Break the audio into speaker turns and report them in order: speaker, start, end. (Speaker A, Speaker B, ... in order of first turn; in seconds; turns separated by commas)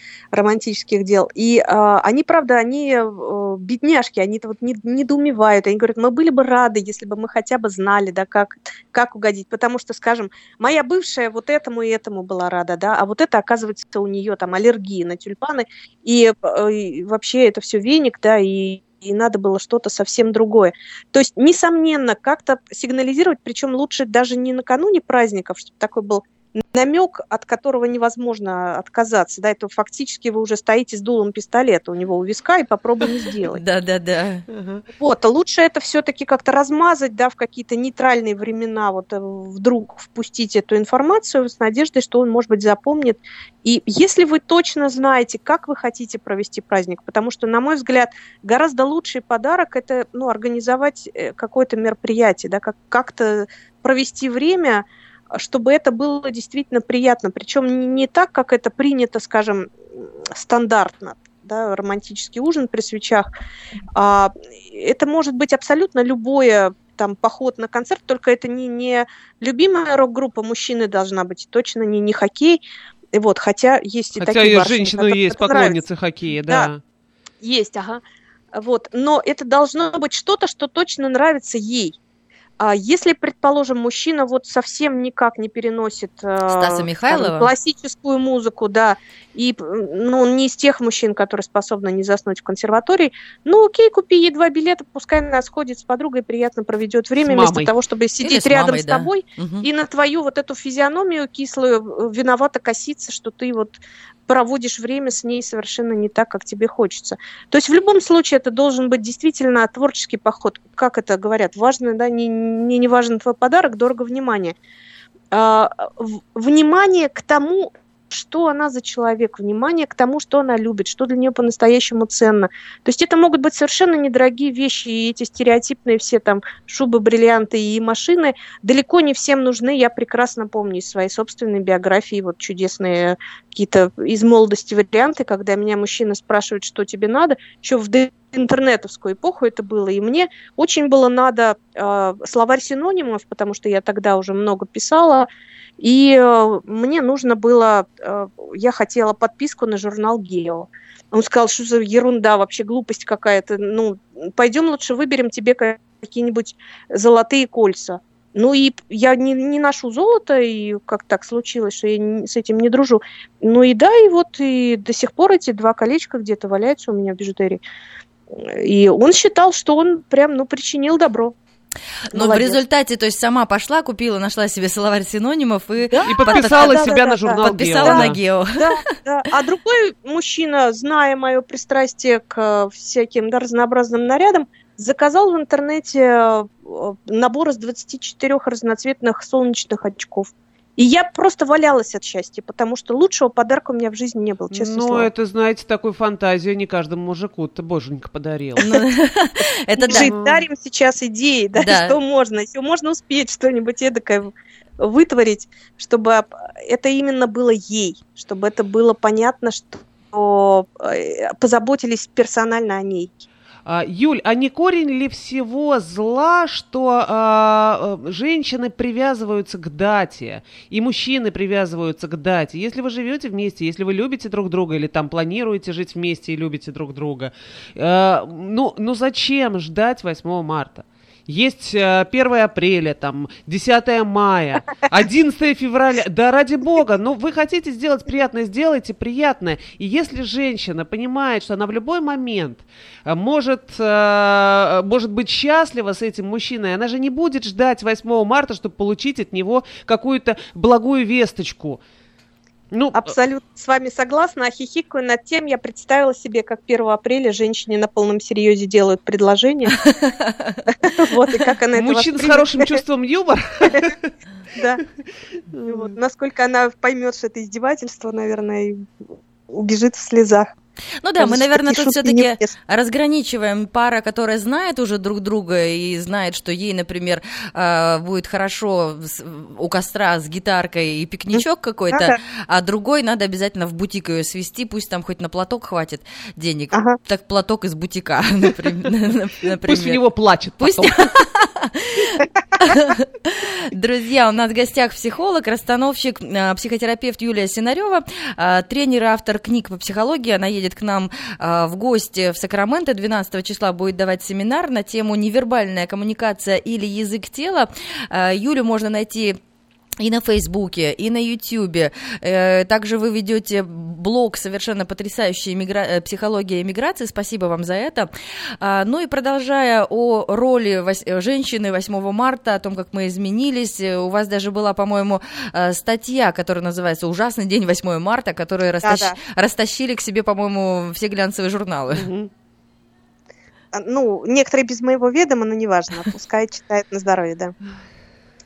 Speaker A: 0.3-33.6, Speaker B: 33.5-34.5, Speaker C: 34.6-34.8, Speaker A: 35.0-63.3, Speaker A: 63.9-72.6, Speaker A: 73.1-75.8, Speaker C: 74.2-76.8, Speaker A: 77.4-78.0, Speaker A: 78.5-82.0, Speaker A: 82.6-114.5, Speaker B: 86.5-87.5, Speaker C: 97.2-97.7, Speaker B: 98.2-99.7, Speaker A: 115.3-145.3, Speaker A: 145.8-167.6, Speaker A: 168.3-171.3, Speaker B: 172.1-178.9, Speaker A: 172.1-172.6, Speaker A: 175.9-195.1, Speaker C: 176.0-178.2, Speaker C: 194.5-198.7, Speaker B: 198.6-200.1, Speaker A: 199.8-213.3, Speaker C: 199.9-200.4, Speaker B: 201.5-202.0, Speaker C: 213.7-251.8, Speaker C: 252.7-253.1, Speaker A: 252.9-259.8, Speaker B: 259.8-260.7, Speaker A: 260.7-262.8, Speaker C: 261.8-264.1, Speaker A: 264.5-264.8, Speaker C: 265.5-265.9, Speaker A: 265.7-270.5, Speaker B: 271.0-290.0, Speaker A: 271.2-272.5, Speaker A: 281.3-282.1, Speaker C: 289.6-291.0, Speaker B: 290.6-309.4, Speaker B: 310.0-318.1, Speaker B: 318.6-332.1, Speaker A: 328.8-329.2, Speaker C: 331.9-332.3, Speaker A: 333.7-337.5